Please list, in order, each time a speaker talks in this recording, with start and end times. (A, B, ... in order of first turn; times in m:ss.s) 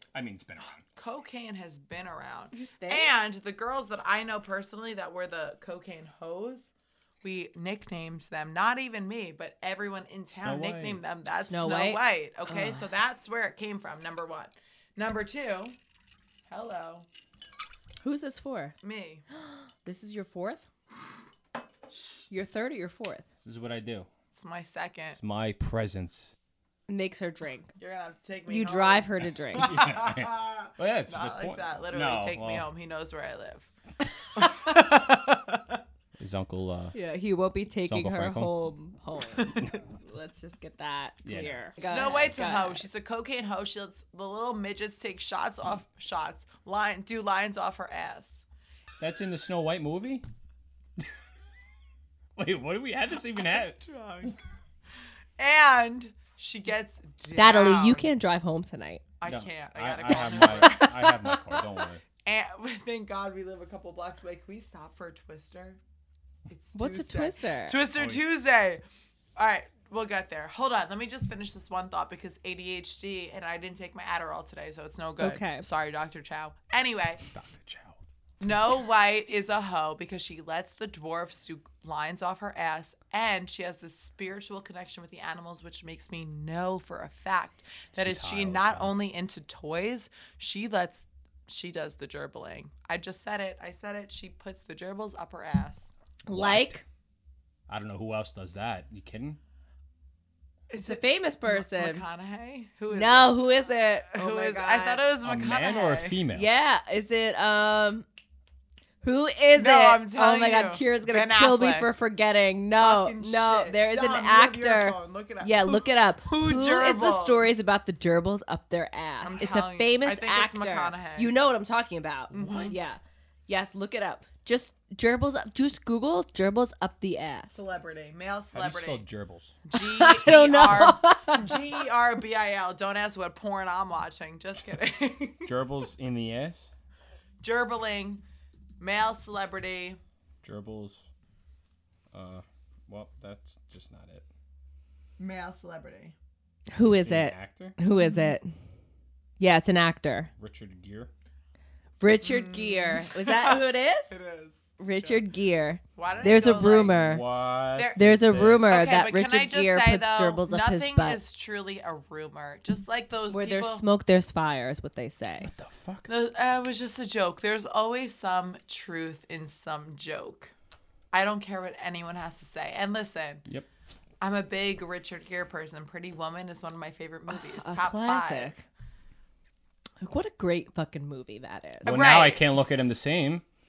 0:00.1-0:00.8 A
0:01.0-0:06.7 B
0:02.5-0:03.1 C
0:07.2-0:15.8 B
0:10.4-0:11.0 A
0:11.4-0:12.9 C
0:16.5-0:17.1 B
0:18.0-0:18.7 C
0:18.8-0:19.2 B
0:19.4-0:20.6 C
0:22.3-0:23.2 C
0:23.4-0:24.1 A
0:24.3-0:25.2 B
0:25.1-0:26.3 A
0:26.9-0:27.7 C
0:27.8-0:33.7 B
0:28.5-0:29.7 C
0:29.6-0:32.7 A
0:34.4-0:35.8 B
0:36.2-0:36.9 A
0:36.9-0:42.8 C
0:37.9-0:38.5 A
0:39.4-0:39.6 B
0:41.2-0:41.6 A
0:41.8-0:48.4 B
0:49.0-0:50.2 A
0:52.4-0:53.8 A
0:53.6-0:54.4 B
0:55.4-0:58.1 B
0:57.4-0:59.0 C
0:59.2-1:01.7 B
0:59.2-1:02.0 A
1:02.2-1:05.8 B
1:06.5-1:08.8 B
1:06.7-1:07.8 C
1:08.0-1:08.2 A
1:09.4-1:17.2 B
1:15.2-1:15.6 C
1:17.3-1:18.0 A
1:18.4-1:35.9 B
1:28.0-1:28.9 A
1:36.2-1:36.8 C
1:36.3-1:36.8 A
1:37.7-1:39.4 A
1:40.7-1:46.2 B
1:40.8-1:42.0 C
1:42.9-1:45.0 C
1:45.2-1:46.5 A
1:46.3-1:48.1 C
1:49.0-2:07.6 C
1:49.6-1:51.9 B
1:52.8-1:57.6 B
1:59.2-2:01.3 B
2:02.3-2:02.9 B
2:02.4-2:02.6 A
2:07.5-2:09.0 B
2:08.5-2:09.6 A
2:09.7-2:15.5 B
2:09.7-2:11.6 C
2:15.4-2:16.7 A
2:17.4-2:18.2 B
2:18.8-2:20.0 B
2:20.4-2:21.1 A
2:22.1-2:24.2 A
2:25.2-2:26.1 B
2:26.7-2:28.5 C
2:26.8-2:27.8 A
2:28.0-2:28.3 B
2:29.4-2:30.3 C
2:30.4-2:31.1 A
2:32.0-2:34.1 C
2:32.2-2:35.2 B
2:34.8-2:37.2 C
2:36.0-2:37.0 B
2:36.1-2:38.7 A
2:37.7-2:43.8 B
2:37.9-2:41.2 C
2:43.3-2:45.5 C
2:45.4-2:46.1 A
2:46.1-2:50.5 B
2:51.1-2:53.4 B
2:54.2-2:58.6 B
2:57.3-2:58.6 C
3:00.0-3:02.0 C
3:01.8-3:02.4 B
3:01.8-3:03.4 A